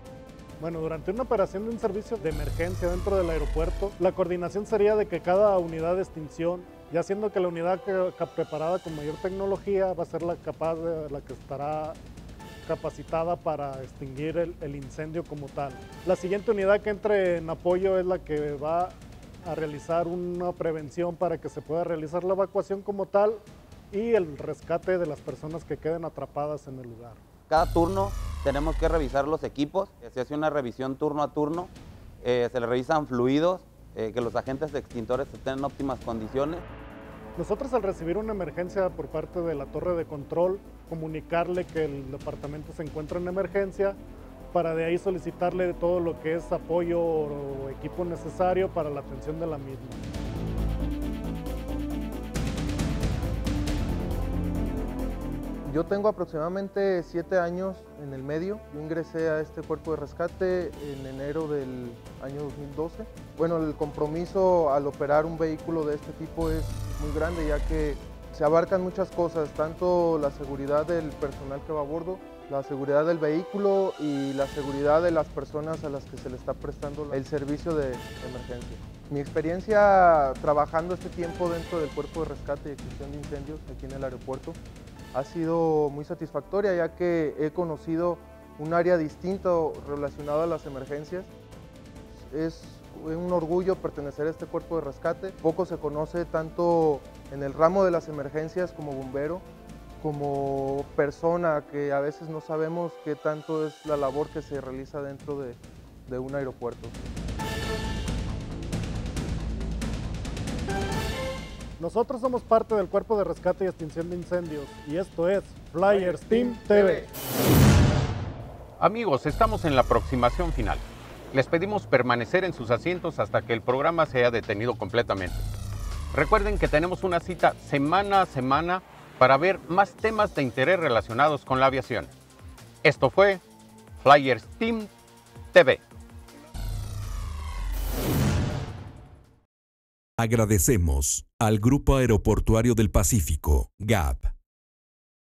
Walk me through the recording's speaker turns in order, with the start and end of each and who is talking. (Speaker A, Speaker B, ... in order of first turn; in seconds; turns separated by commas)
Speaker A: 0.6-12.0, Speaker A: 12.7-27.2, Speaker B: 27.5-36.6, Speaker A: 37.4-44.0, Speaker A: 44.5-50.0, Speaker C: 55.6-84.6, Speaker C: 85.1-91.3, Speaker C: 92.2-99.5, Speaker C: 100.0-107.0, Speaker A: 111.8-117.1, Speaker D: 118.8-125.5, Speaker D: 126.1-132.1, Speaker D: 132.8-133.4, Speaker D: 134.0-134.9, Speaker D: 135.5-135.8, Speaker E: 140.2-144.3